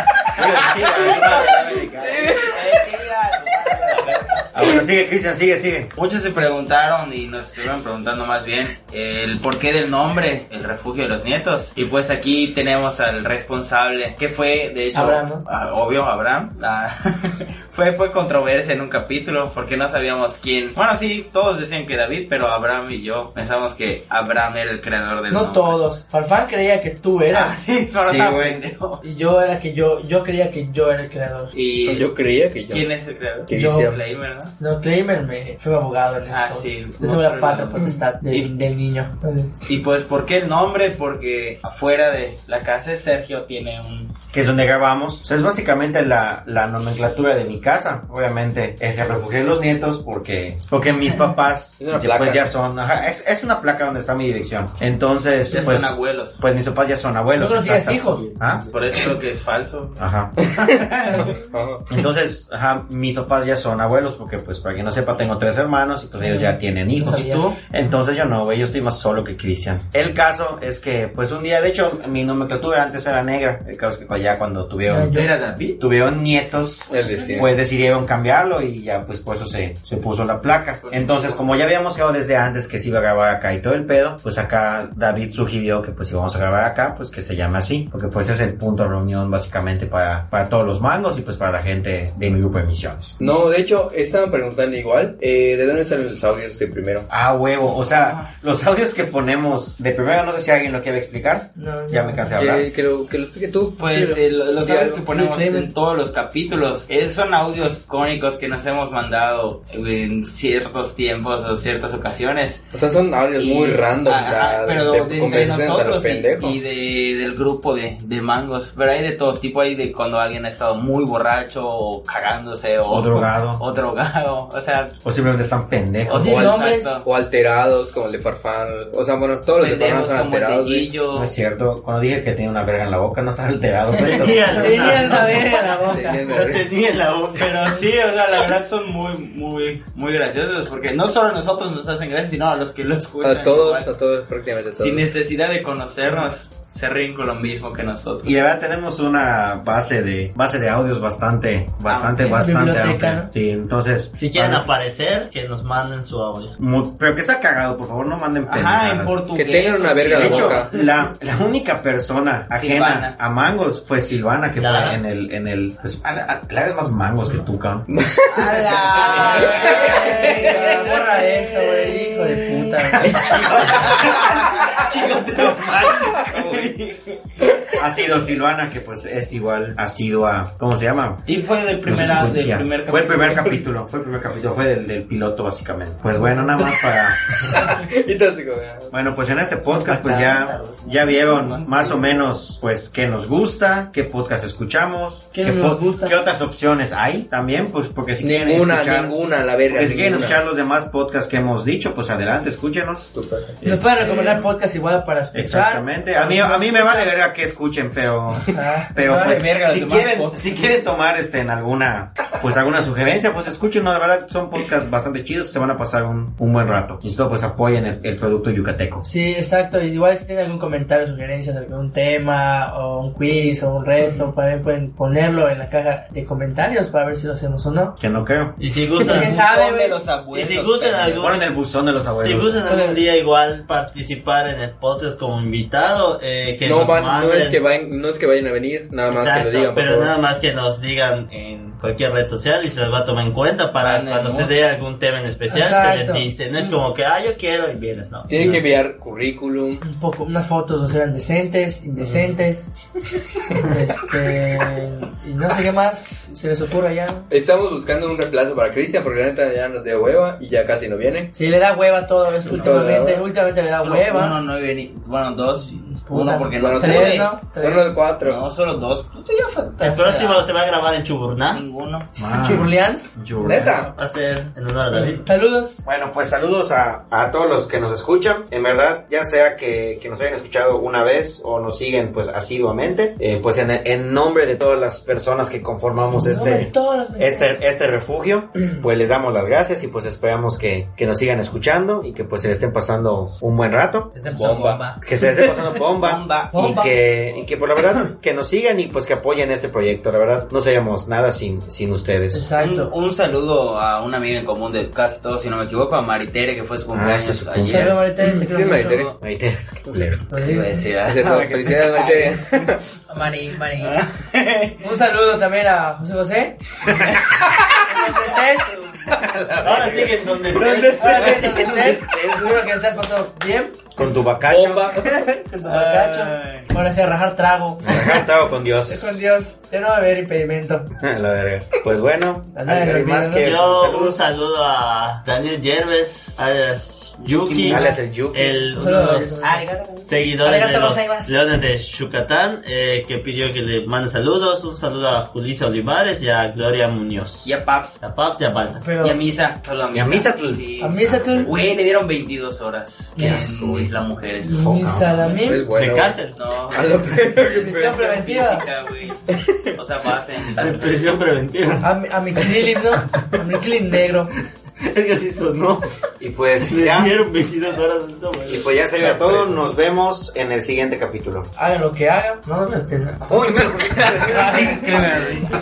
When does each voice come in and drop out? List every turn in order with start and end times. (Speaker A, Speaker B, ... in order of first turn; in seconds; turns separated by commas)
Speaker A: 0.3-2.5, Speaker B: 0.4-4.5, Speaker C: 1.9-2.7, Speaker A: 4.5-5.9, Speaker B: 6.0-25.8, Speaker D: 14.9-15.4, Speaker D: 25.3-27.6, Speaker B: 27.3-29.0, Speaker A: 28.0-28.6, Speaker D: 29.0-31.5, Speaker B: 31.5-32.1, Speaker C: 31.9-32.9, Speaker B: 32.7-34.5, Speaker C: 33.5-34.0, Speaker D: 33.5-33.9, Speaker D: 34.6-39.5, Speaker B: 36.3-38.5, Speaker B: 39.7-44.1, Speaker A: 44.3-58.6, Speaker C: 51.8-52.5, Speaker B: 55.5-56.4, Speaker D: 57.4-58.3, Speaker E: 58.2-59.0, Speaker B: 58.7-61.4, Speaker A: 60.0-60.3, Speaker C: 60.4-61.9, Speaker A: 61.9-75.2, Speaker D: 66.2-67.6, Speaker B: 67.2-67.5, Speaker D: 74.9-75.3, Speaker B: 75.1-75.8, Speaker A: 75.8-93.2, Speaker C: 76.9-77.5, Speaker D: 77.0-77.4, Speaker B: 80.8-81.6, Speaker C: 93.2-97.1, Speaker A: 97.1-102.7, Speaker B: 97.9-98.3, Speaker D: 101.6-102.3, Speaker C: 102.4-105.7, Speaker B: 103.8-112.6, Speaker C: 112.7-116.6, Speaker B: 113.4-125.0, Speaker A: 122.9-123.6, Speaker A: 125.0-126.3, Speaker B: 126.0-127.1, Speaker C: 126.2-130.9, Speaker D: 126.2-126.9, Speaker B: 129.6-131.3, Speaker A: 131.1-135.4, Speaker E: 133.9-135.7, Speaker D: 134.5-136.3, Speaker C: 135.2-136.7, Speaker E: 136.3-137.9, Speaker B: 137.4-143.9, Speaker C: 143.2-145.1, Speaker B: 144.8-148.3, Speaker A: 148.2-154.7, Speaker B: 151.9-152.5, Speaker D: 152.3-153.3, Speaker E: 154.2-156.6, Speaker A: 156.6-159.2, Speaker B: 158.4-160.8, Speaker C: 159.3-160.7, Speaker A: 160.2-167.9, Speaker B: 162.5-163.2, Speaker E: 164.6-165.0, Speaker C: 167.9-168.8, Speaker B: 168.3-170.9, Speaker A: 169.0-169.8, Speaker C: 169.5-170.0, Speaker D: 169.6-173.5, Speaker A: 172.9-176.8, Speaker B: 173.5-177.4, Speaker C: 177.5-177.8, Speaker A: 177.8-181.2, Speaker B: 181.3-183.7, Speaker A: 181.8-187.8, Speaker D: 186.1-186.7, Speaker C: 187.4-188.9, Speaker A: 188.9-199.2, Speaker B: 189.9-192.2, Speaker D: 195.3-196.2, Speaker C: 198.2-200.4, Speaker A: 199.7-204.5, Speaker C: 203.1-203.6, Speaker D: 203.6-207.1, Speaker A: 205.3-219.1, Speaker D: 208.5-208.9, Speaker B: 209.0-210.5, Speaker D: 219.0-228.0, Speaker A: 228.0-228.6, Speaker E: 228.6-229.3, Speaker D: 229.0-230.0, Speaker B: 229.0-231.4, Speaker E: 230.3-231.4, Speaker A: 231.2-232.7, Speaker E: 232.0-237.6, Speaker D: 232.7-233.0, Speaker C: 236.6-240.1, Speaker E: 239.1-248.6, Speaker B: 243.8-244.6, Speaker D: 245.5-246.3, Speaker C: 248.3-249.8, Speaker D: 249.8-252.8, Speaker C: 252.0-252.4, Speaker D: 253.6-257.3, Speaker C: 257.3-261.3, Speaker D: 261.3-264.4, Speaker C: 262.4-263.3, Speaker B: 263.8-267.3, Speaker D: 265.7-267.9, Speaker C: 266.6-268.4, Speaker B: 268.2-270.5, Speaker E: 269.8-271.6, Speaker B: 271.5-272.1, Speaker A: 272.2-273.8, Speaker D: 272.3-273.9, Speaker E: 273.9-275.2, Speaker D: 275.2-275.8, Speaker A: 275.9-294.1, Speaker D: 286.1-287.5, Speaker F: 294.1-295.0, Speaker A: 295.0-302.5, Speaker B: 296.0-296.8, Speaker D: 296.5-296.9, Speaker D: 302.3-302.9, Speaker B: 302.6-308.0, Speaker A: 306.9-308.0, Speaker D: 307.7-309.0, Speaker C: 308.2-309.1, Speaker A: 309.2-310.3, Speaker D: 310.3-310.9, Speaker B: 310.4-312.7, Speaker C: 311.1-312.8, Speaker A: 311.2-311.7, Speaker F: 313.1-314.0, Speaker B: 313.8-314.9, Speaker D: 314.8-316.6, Speaker D: 317.8-318.8, Speaker A: 319.3-320.1, Speaker B: 319.5-322.3, Speaker E: 319.6-322.0, Speaker D: 321.0-323.8, Speaker A: 323.9-324.9, Speaker C: 324.5-325.2, Speaker D: 325.0-328.3, Speaker E: 325.7-326.4, Speaker A: 327.8-329.2, Speaker D: 328.9-330.9, Speaker A: 331.0-334.2, Speaker D: 332.5-333.5, Speaker E: 333.3-339.5, Speaker A: 337.4-338.6, Speaker D: 337.7-337.9, Speaker D: 338.8-339.7, Speaker B: 339.4-340.3, Speaker E: 340.1-348.9, Speaker F: 340.4-341.4, Speaker D: 340.5-341.3, Speaker B: 347.4-348.0, Speaker D: 348.8-349.2, Speaker B: 349.0-354.7, Speaker A: 349.9-351.6, Speaker D: 350.8-351.5, Speaker D: 353.1-353.5, Speaker A: 353.2-353.9, Speaker D: 354.4-355.7, Speaker A: 354.5-355.3, Speaker C: 355.3-357.9, Speaker E: 355.7-356.4, Speaker B: 356.3-359.2, Speaker D: 357.4-358.7, Speaker C: 359.3-359.7, Speaker B: 359.8-361.0, Speaker E: 360.6-363.4, Speaker D: 361.8-364.3, Speaker E: 364.8-365.9, Speaker A: 366.2-367.2, Speaker E: 366.6-369.6, Speaker A: 368.5-371.5, Speaker D: 371.6-373.2, Speaker A: 373.2-375.4, Speaker D: 374.3-375.4